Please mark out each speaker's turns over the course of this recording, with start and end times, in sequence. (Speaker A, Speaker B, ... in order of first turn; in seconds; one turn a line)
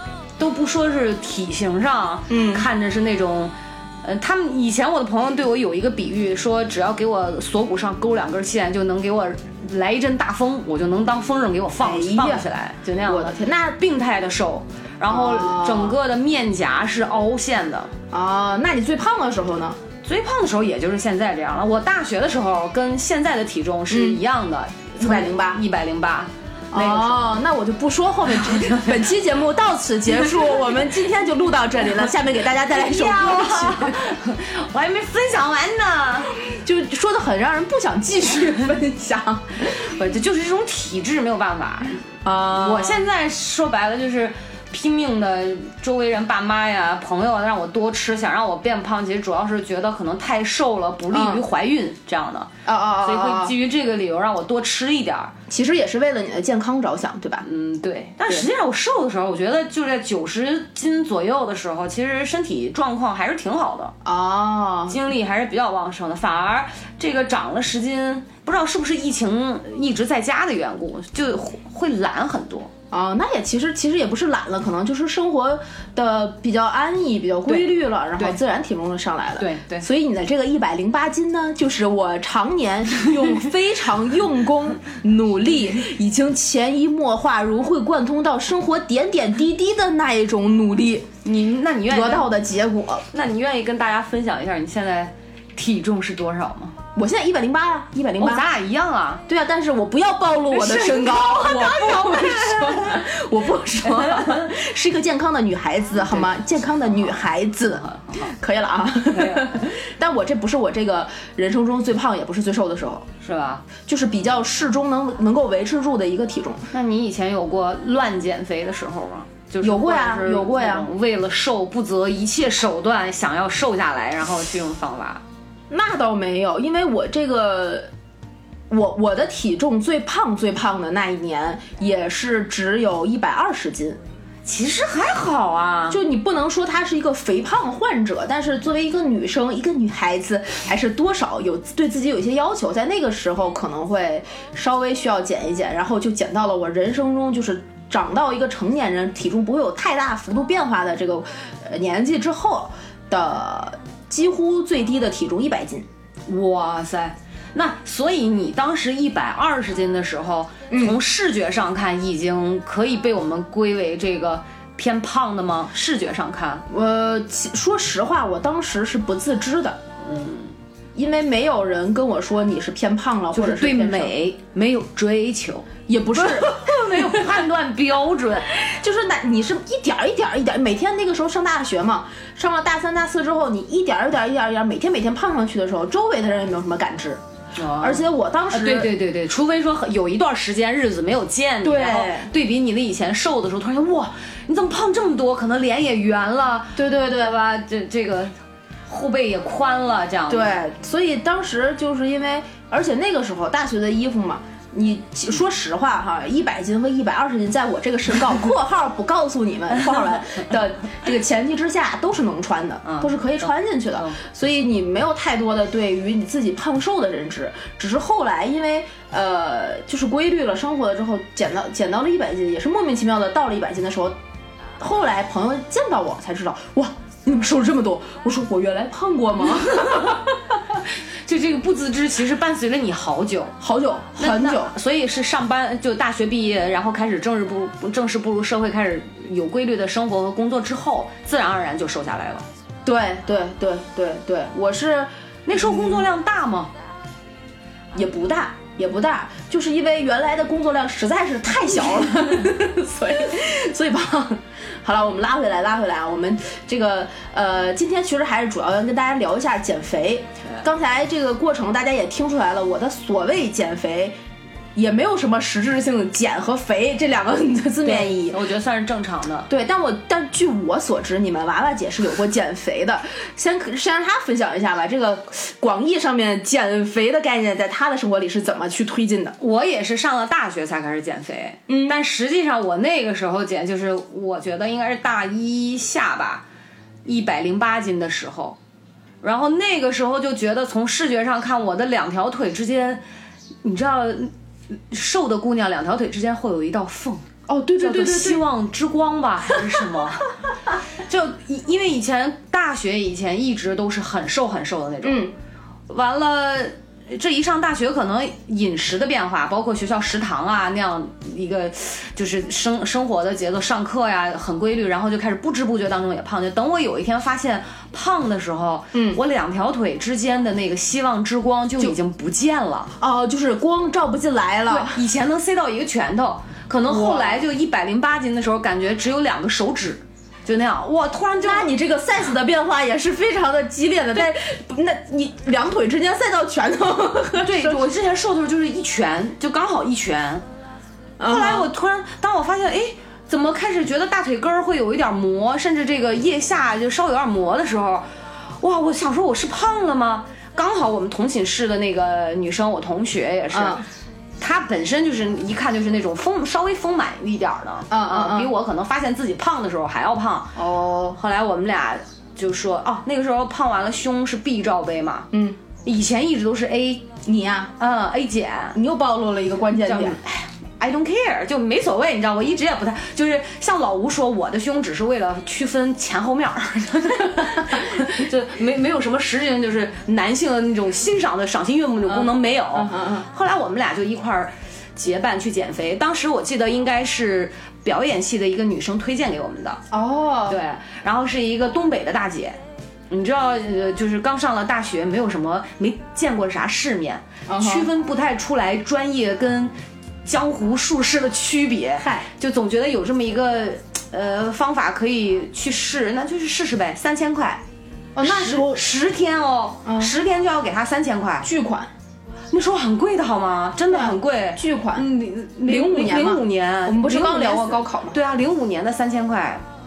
Speaker A: 0.4-17.9
Speaker B: 2.3-2.7
Speaker B: 11.8-12.5
Speaker B: 13.0-13.8
Speaker B: 15.1-16.0
Speaker B: 18.1-19.8
Speaker A: 20.0-27.2
Speaker B: 23.9-24.2
Speaker B: 25.0-25.6
Speaker B: 26.7-34.1
Speaker A: 28.3-29.0
Speaker A: 32.7-36.3
Speaker B: 36.4-39.8
Speaker A: 39.7-55.3
Speaker B: 42.2-43.0
Speaker B: 51.1-51.4
Speaker B: 52.7-53.5
Speaker B: 55.5-57.5
Speaker A: 57.4-64.0
Speaker B: 64.0-65.0
Speaker A: 64.9-72.7
Speaker B: 72.9-91.1
Speaker A: 77.5-78.4
Speaker A: 79.4-79.9
Speaker A: 91.2-92.3
Speaker B: 91.9-93.0
Speaker A: 93.1-96.8
Speaker B: 97.0-98.5
Speaker A: 98.2-99.2
Speaker B: 99.3-113.0
Speaker A: 100.5-103.0
Speaker A: 103.9-104.4
Speaker A: 106.0-106.3
Speaker A: 107.8-108.3
Speaker A: 109.1-109.5
Speaker A: 113.2-113.6
Speaker B: 113.8-116.7
Speaker A: 116.7-125.2
Speaker B: 119.6-120.9
Speaker B: 125.7-127.9
Speaker B: 128.7-134.0
Speaker A: 134.4-136.0
Speaker B: 135.9-155.9
Speaker A: 156.3-166.7
Speaker B: 160.7-161.0
Speaker B: 166.7-169.8
Speaker A: 170.0-170.5
Speaker B: 170.9-174.1
Speaker A: 173.3-178.5
Speaker B: 175.9-177.3
Speaker B: 178.5-187.2
Speaker A: 187.6-198.3
Speaker B: 187.8-188.9
Speaker B: 191.6-192.3
Speaker B: 196.8-197.3
Speaker A: 198.9-200.6
Speaker B: 200.3-224.2
Speaker A: 212.8-214.2
Speaker B: 224.8-230.3
Speaker A: 229.8-230.2
Speaker A: 231.3-233.5
Speaker B: 233.6-234.7
Speaker A: 234.2-242.4
Speaker B: 242.8-246.0
Speaker A: 245.5-246.7
Speaker B: 247.9-264.2
Speaker B: 264.8-268.4
Speaker A: 267.8-269.5
Speaker B: 269.5-279.4
Speaker A: 279.4-286.4
Speaker B: 281.7-282.0
Speaker A: 287.0-288.6
Speaker A: 289.2-293.0
Speaker A: 293.6-297.2
Speaker B: 297.5-298.4
Speaker A: 297.8-300.3
Speaker A: 301.1-305.3
Speaker B: 305.0-305.3
Speaker A: 305.9-322.9
Speaker B: 318.9-319.2
Speaker B: 323.0-325.0
Speaker A: 324.7-331.7
Speaker B: 326.9-327.4
Speaker B: 331.4-337.9
Speaker A: 337.4-340.4
Speaker B: 341.2-341.7
Speaker A: 341.2-348.0
Speaker A: 348.6-353.8
Speaker B: 353.5-353.8
Speaker A: 354.4-360.6
Speaker B: 357.9-358.5
Speaker B: 360.6-361.2
Speaker A: 361.1-365.3
Speaker B: 365.3-365.6
Speaker A: 365.8-367.1
Speaker B: 367.2-367.7
Speaker A: 367.8-368.8
Speaker B: 368.7-370.2
Speaker A: 369.8-389.8
Speaker B: 382.1-383.3
Speaker B: 389.9-390.6
Speaker A: 390.5-392.6
Speaker A: 393.1-407.6
Speaker B: 397.5-397.9
Speaker B: 402.0-402.3
Speaker B: 408.1-408.9
Speaker A: 408.2-411.5
Speaker B: 409.8-410.1
Speaker B: 411.4-411.9
Speaker A: 412.5-419.6
Speaker B: 413.9-415.1
Speaker B: 415.6-418.2